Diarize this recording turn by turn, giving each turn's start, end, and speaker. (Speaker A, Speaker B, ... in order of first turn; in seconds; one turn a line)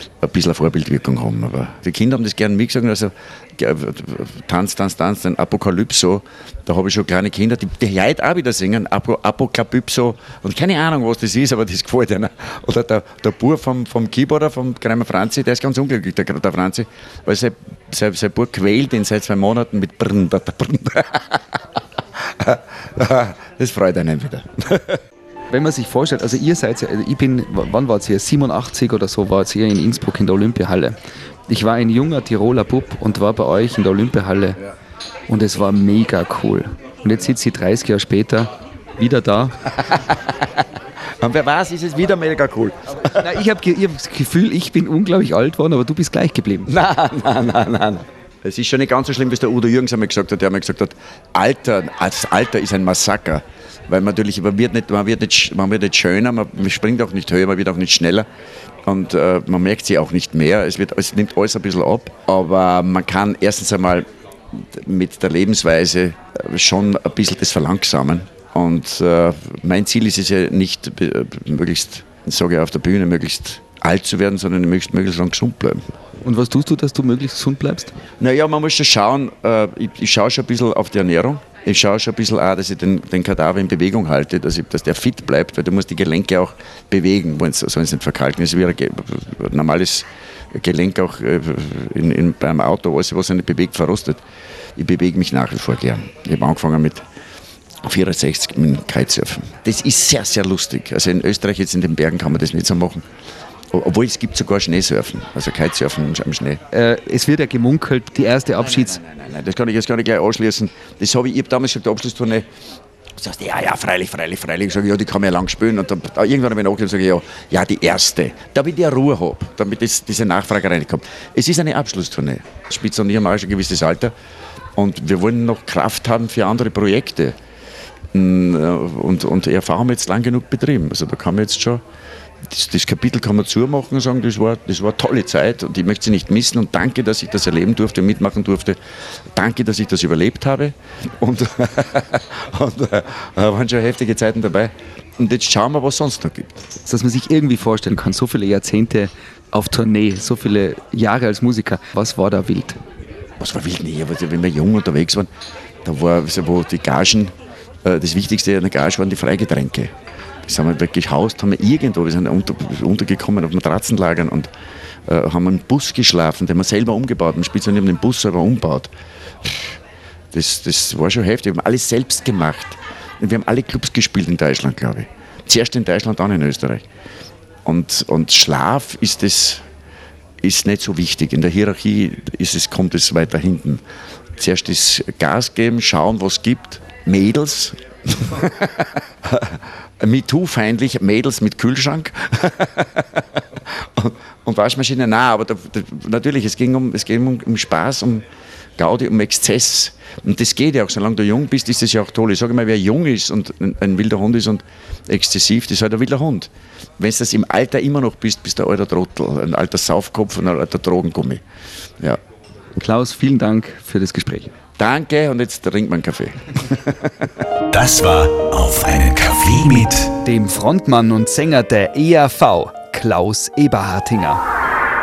Speaker A: 0.2-25.0
Speaker B: 25.5-31.0
Speaker B: 31.5-34.6
Speaker B: 35.3-39.6
Speaker A: 39.8-40.6
Speaker A: 41.2-43.4
Speaker B: 43.0-46.7
Speaker A: 46.7-58.3
Speaker A: 58.9-75.8
Speaker B: 76.2-77.9
Speaker A: 78.2-94.2
Speaker A: 94.8-97.0
Speaker A: 97.8-103.0
Speaker A: 103.7-106.6
Speaker B: 106.7-109.0
Speaker A: 108.8-112.5
Speaker A: 113.2-124.1
Speaker A: 124.8-127.3
Speaker A: 128.1-131.8
Speaker A: 132.5-138.8
Speaker A: 139.3-146.6
Speaker B: 146.8-152.8
Speaker A: 153.4-155.3
Speaker A: 155.8-159.9
Speaker A: 160.4-164.5
Speaker A: 165.1-168.9
Speaker A: 169.4-169.8
Speaker A: 170.3-176.9
Speaker A: 177.7-179.6
Speaker A: 180.4-183.8
Speaker A: 184.4-198.2
Speaker A: 198.8-211.4
Speaker B: 212.8-214.5
Speaker A: 214.8-217.3
Speaker C: 217.7-220.1
Speaker B: 220.2-224.4